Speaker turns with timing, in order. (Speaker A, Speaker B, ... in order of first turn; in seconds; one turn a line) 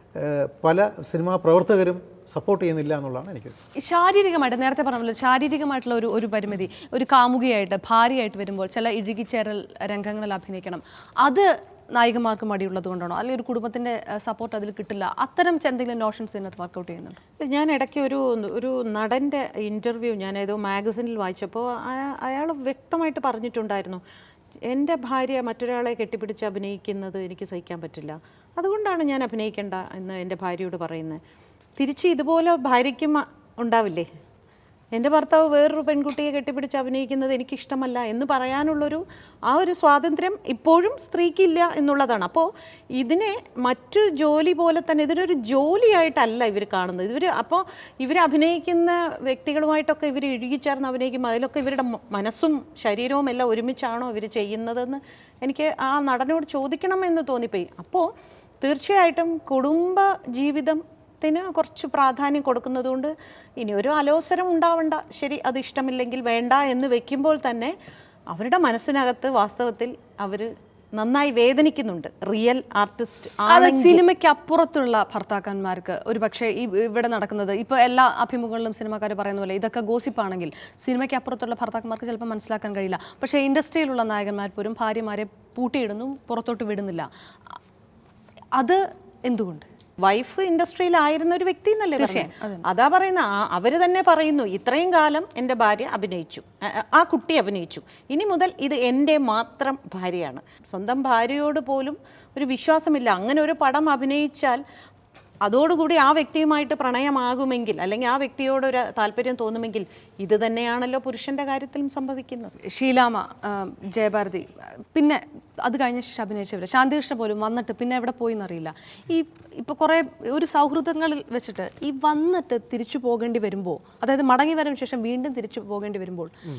Speaker A: 0.2-3.5
Speaker B: 3.8-17.2
Speaker C: 17.4-24.0
Speaker C: 24.7-31.2
Speaker C: 31.8-34.1
Speaker C: 34.9-58.1
Speaker C: 58.6-67.7
Speaker C: 68.3-74.0
Speaker B: 73.5-87.0
Speaker B: 88.6-89.7
Speaker C: 90.0-104.6
Speaker B: 92.0-92.6
Speaker C: 105.4-112.5
Speaker B: 112.7-126.3